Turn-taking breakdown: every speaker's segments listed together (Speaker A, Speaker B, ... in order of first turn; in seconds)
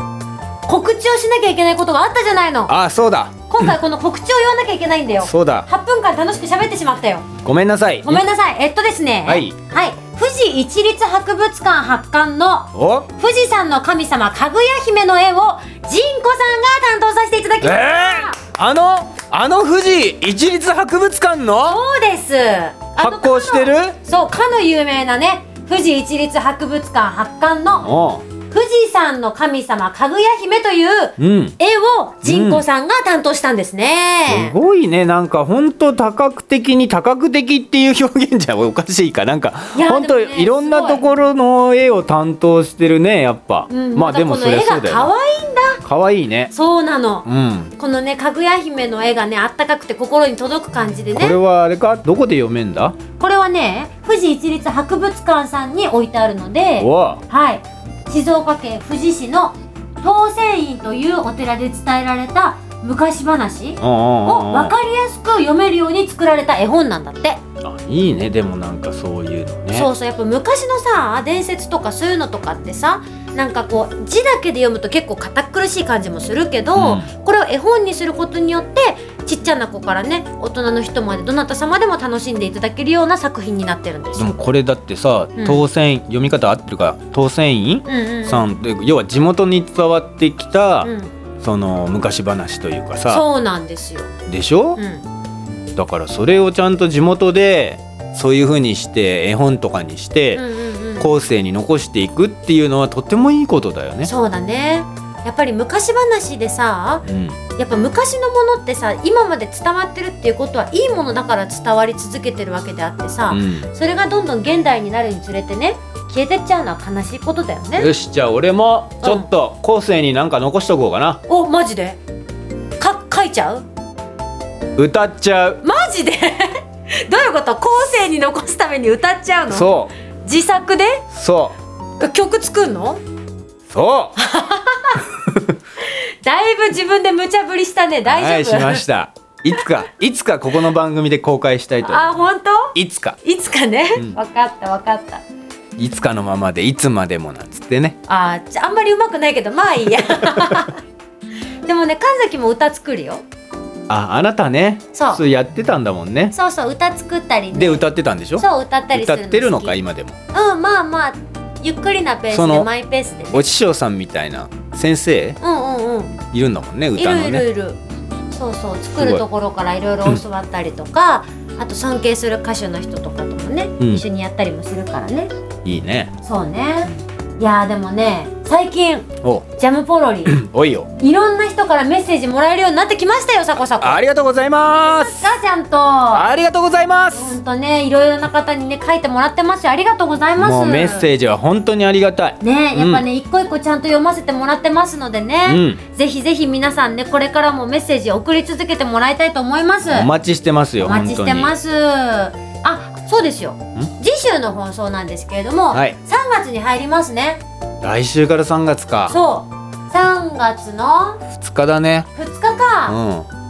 Speaker A: 0.7-2.7, 3.5-7.3, 8.0-18.4, 21.6-27.9, 28.5-34.5, 39.7-41.1, 43.7-45.8, 46.5-51.4, 53.2-67.4, 69.7-84.3, 85.4-85.7, 87.9-88.5, 90.8-91.1, 93.1-94.1, 94.8-95.0, 100.3-101.1, 104.0-107.0, 107.6-117.9, 119.0-119.3, 121.3-122.0, 122.8-123.7, 125.6-129.7, 130.2-131.0, 132.0-133.0, 134.2-135.0, 135.9-138.8, 141.8-145.2, 148.1-150.8, 151.7-153.2, 154.9-155.2, 156.3-157.8, 158.4-159.8, 160.3-163.5, 165.4-166.2, 167.0-167.8, 168.3-175.3, 176.2-180.4, 181.0-184.0, 184.8-186.3, 187.1-191.1, 192.4-200.1, 200.8-207.4, 209.1-211.2, 212.2-213.0
Speaker B: 2.7-3.8, 5.2-5.7, 7.4-8.2, 9.3-9.5, 12.8-13.1, 17.6-21.8, 23.0-24.0, 27.8-28.2, 31.2-31.6, 32.2-32.6, 34.3-45.1, 45.8-46.5, 47.2-47.7, 51.2-53.0, 56.8-57.2, 63.8-64.8, 67.6-69.9, 76.7-77.1, 84.1-93.2, 94.3-94.8, 95.8-100.5, 101.0-104.1, 107.1-107.4, 113.3-113.7, 117.8-121.2, 124.8-125.6, 129.5-129.9, 131.1-131.6, 133.7-134.2, 138.1-142.2, 142.8-143.2, 145.8-148.0, 153.9-156.3, 157.5-160.2, 162.3-162.7, 163.3-165.4, 166.3-167.5, 168.9-169.2, 175.7-176.1, 180.3-180.9, 183.8-185.3, 186.1-187.4, 190.4-193.0, 195.5-195.8, 199.8-201.5, 205.7-206.0, 207.8-209.2, 211.3-212.1, 212.9-213.3